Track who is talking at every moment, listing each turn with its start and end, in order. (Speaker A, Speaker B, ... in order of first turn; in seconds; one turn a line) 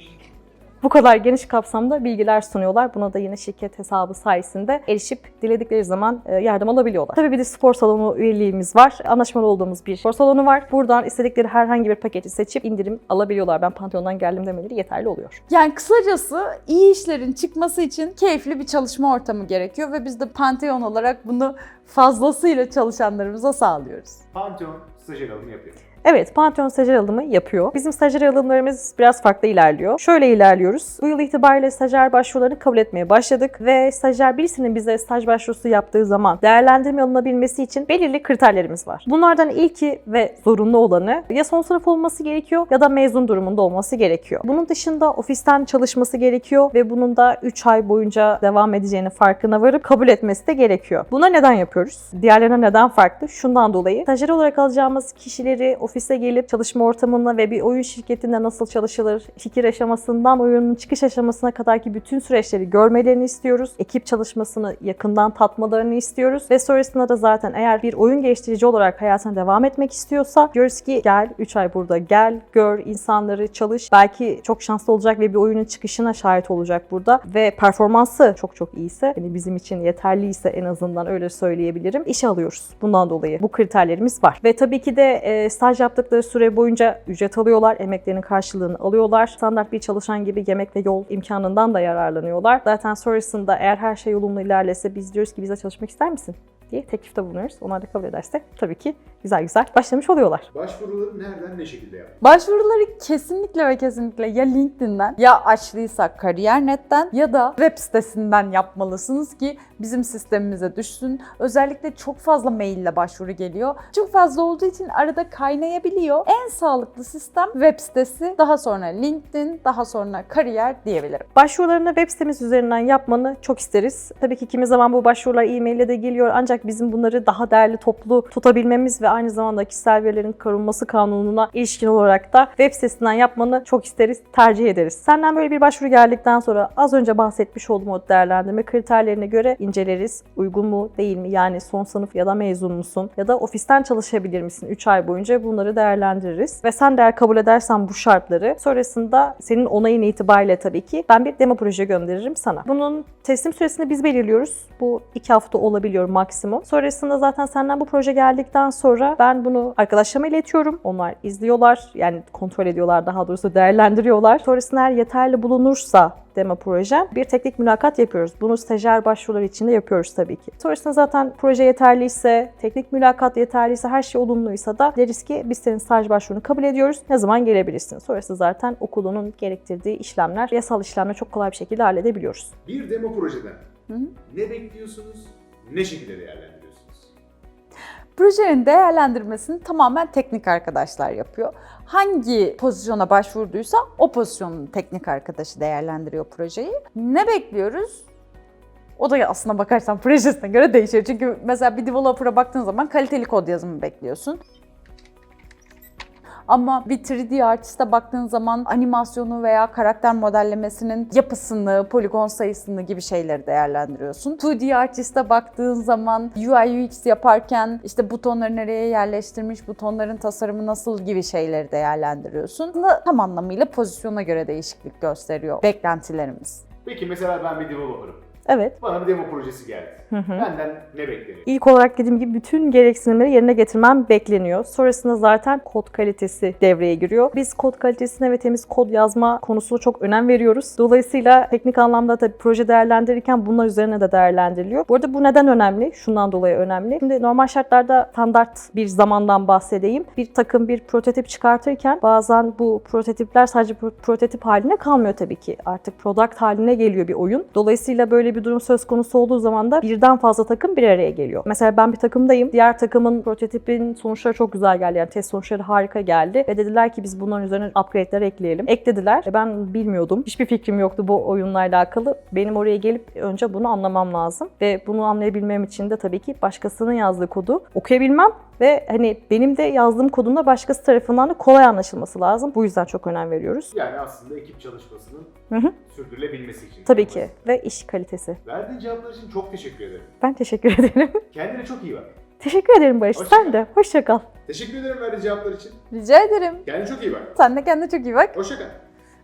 Speaker A: 0.8-15.4
Speaker B: 15.5-24.2
Speaker C: 24.3-25.8
Speaker A: 26.0-100.5
Speaker C: 100.5-102.2
Speaker B: 102.2-121.3
Speaker A: 121.3-182.5
Speaker C: 182.7-183.7
Speaker C: 184.3-187.1
Speaker B: 188.2-198.0
Speaker B: 199.0-204.4
Speaker B: 206.5-226.6
Speaker C: 226.8-228.2
Speaker A: 228.5-228.8
Speaker C: 228.8-231.5
Speaker A: 230.1-230.5
Speaker A: 231.5-283.7
Speaker C: 283.7-285.3
Speaker C: 285.9-287.3
Speaker A: 286.9-288.4
Speaker C: 288.4-290.1
Speaker A: 290.2-291.2
Speaker C: 291.3-292.1
Speaker A: 292.4-294.3
Speaker C: 293.1-293.6
Speaker C: 294.5-295.8
Speaker B: 295.9-296.6
Speaker C: 296.6-297.4
Speaker B: 297.4-298.4
Speaker C: 298.3-298.8